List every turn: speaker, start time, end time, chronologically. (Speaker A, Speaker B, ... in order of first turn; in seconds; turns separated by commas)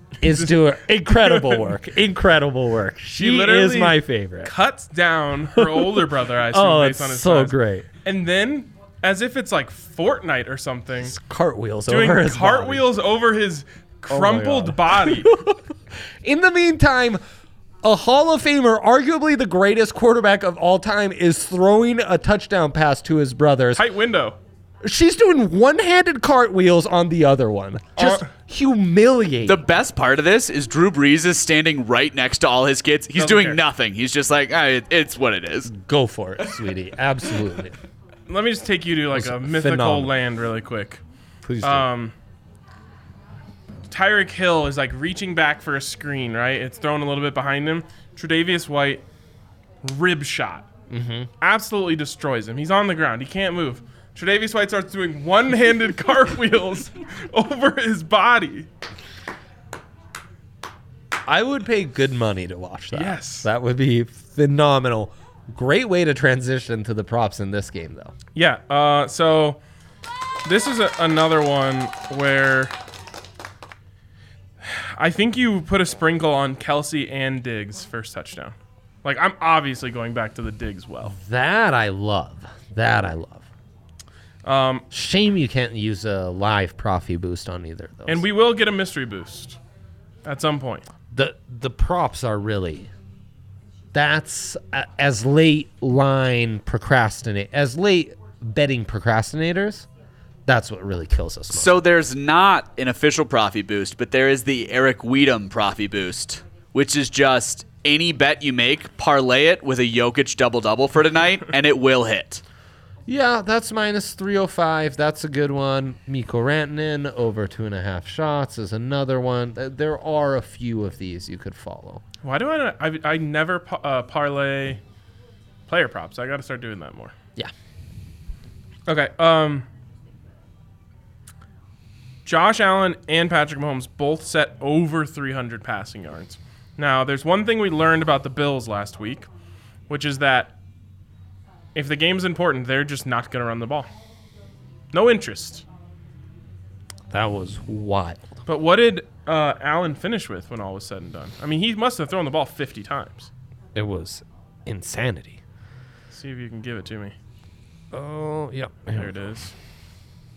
Speaker A: 0.2-4.5, Speaker B: 0.2-1.7, Speaker B: 3.1-11.2, Speaker A: 5.5-7.8, Speaker A: 11.0-12.9, Speaker B: 11.9-15.3, Speaker A: 14.1-17.2, Speaker A: 17.8-23.9, Speaker B: 23.8-24.4, Speaker A: 24.8-29.6, Speaker B: 28.0-28.3, Speaker C: 29.4-35.7, Speaker B: 33.1-33.6, Speaker A: 35.6-37.7, Speaker B: 38.3-41.0, Speaker A: 39.1-40.1, Speaker A: 41.4-41.9, Speaker B: 41.6-42.1, Speaker B: 43.9-49.0, Speaker B: 49.8-50.7, Speaker A: 50.9-51.3, Speaker B: 51.4-58.7, Speaker A: 61.2-68.1, Speaker B: 62.9-63.5, Speaker B: 68.3-69.6, Speaker B: 70.4-72.7, Speaker B: 74.6-81.2, Speaker A: 81.1-83.5, Speaker B: 84.4-84.8, Speaker A: 84.9-88.2, Speaker B: 88.1-89.6, Speaker B: 90.2-90.8, Speaker A: 91.1-92.9, Speaker A: 93.9-99.9, Speaker A: 100.5-101.8, Speaker C: 101.5-112.4, Speaker A: 113.1-122.0, Speaker B: 122.2-124.8, Speaker B: 125.7-127.1, Speaker B: 128.9-129.7, Speaker B: 132.2-139.3, Speaker B: 139.9-140.5, Speaker B: 141.7-143.9, Speaker B: 144.9-145.7, Speaker A: 147.1-148.3, Speaker B: 148.4-153.3, Speaker A: 153.7-155.4, Speaker B: 156.1-157.2, Speaker A: 157.9-159.1, Speaker B: 158.9-159.5